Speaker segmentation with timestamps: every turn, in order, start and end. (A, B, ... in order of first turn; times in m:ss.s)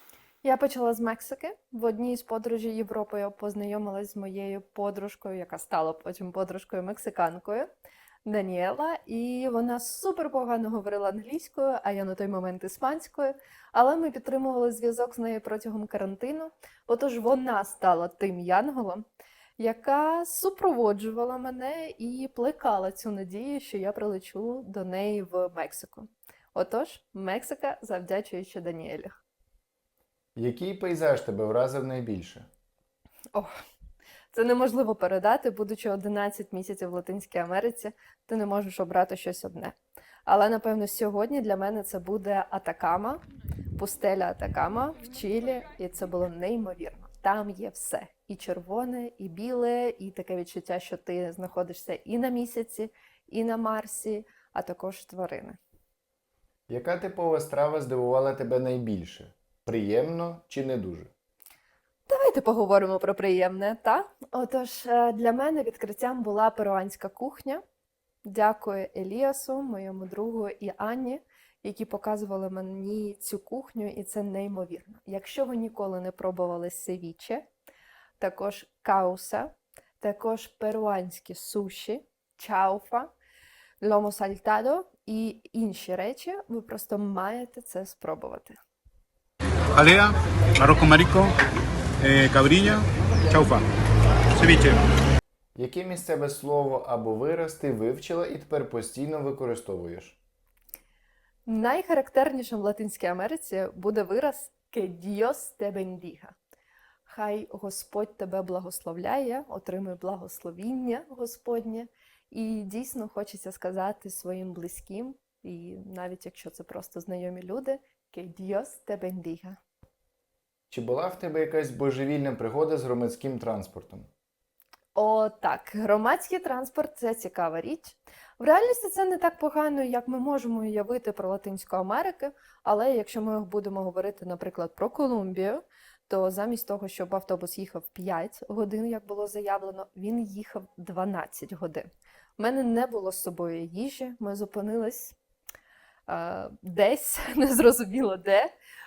0:00.4-0:07.7 A
0:08.2-0:19.0 A
0:19.6-0:29.1 A
0:30.4-0:32.5 B
0:34.3-0:39.8 A
0:40.3-0:43.2 A
0:43.8-0:55.6 A
0:56.7-1:01.1 B
1:02.1-1:07.6 A
1:08.2-1:17.5 A
1:18.2-1:23.1 A
1:23.8-1:28.6 A
1:29.8-1:31.3 C
1:32.0-1:33.7 C
1:34.3-1:34.8 C
1:35.6-1:40.2 B
1:41.5-1:46.4 A
1:47.1-1:59.6 A
2:00.7-2:04.1 B
2:05.0-2:25.2 A
2:26.1-2:28.5 A